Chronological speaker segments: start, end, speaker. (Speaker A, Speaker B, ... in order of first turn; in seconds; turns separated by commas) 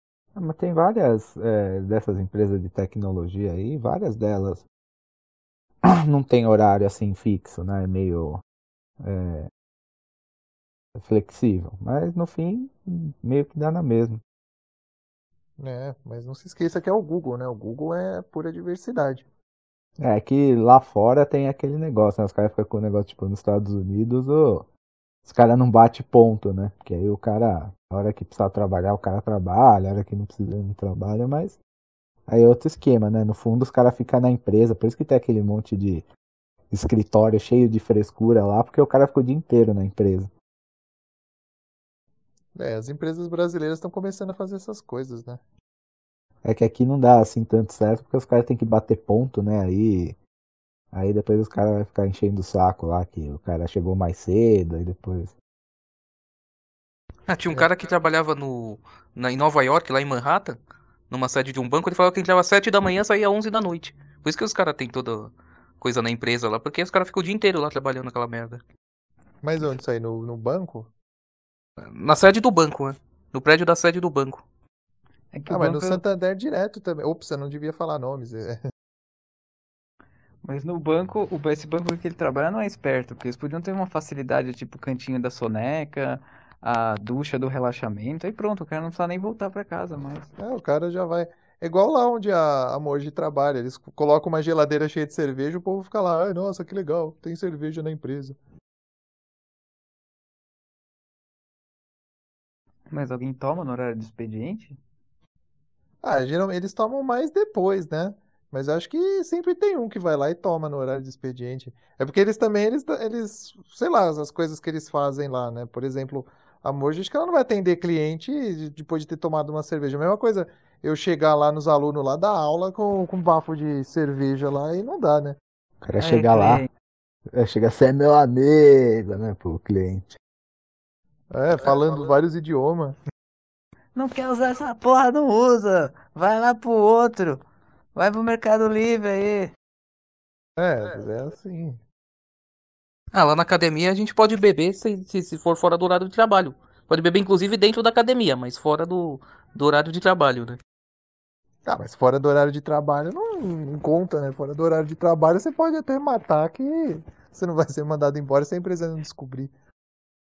Speaker A: 0.3-4.6, Speaker A: 5.8-8.4, Speaker A: 9.0-9.5, Speaker A: 10.9-14.2, Speaker B: 15.6-19.2, Speaker A: 20.0-24.7, Speaker A: 25.2-31.6, Speaker A: 32.3-36.0, Speaker A: 36.7-40.3, Speaker B: 42.5-45.4, Speaker A: 46.4-50.2, Speaker A: 50.9-55.3, Speaker C: 57.3-60.6, Speaker C: 61.1-68.6, Speaker B: 69.4-70.9, Speaker C: 71.8-74.4, Speaker D: 75.3-76.0, Speaker B: 75.5-78.6, Speaker D: 80.4-90.3, Speaker B: 90.4-98.4, Speaker D: 102.9-104.8, Speaker B: 106.0-125.4, Speaker A: 125.8-126.6, Speaker D: 126.0-126.7, Speaker A: 127.3-130.1, Speaker B: 131.3-133.0, Speaker D: 133.9-137.4, Speaker D: 137.9-139.5, Speaker B: 140.6-141.8, Speaker C: 143.1-150.6, Speaker B: 151.7-159.5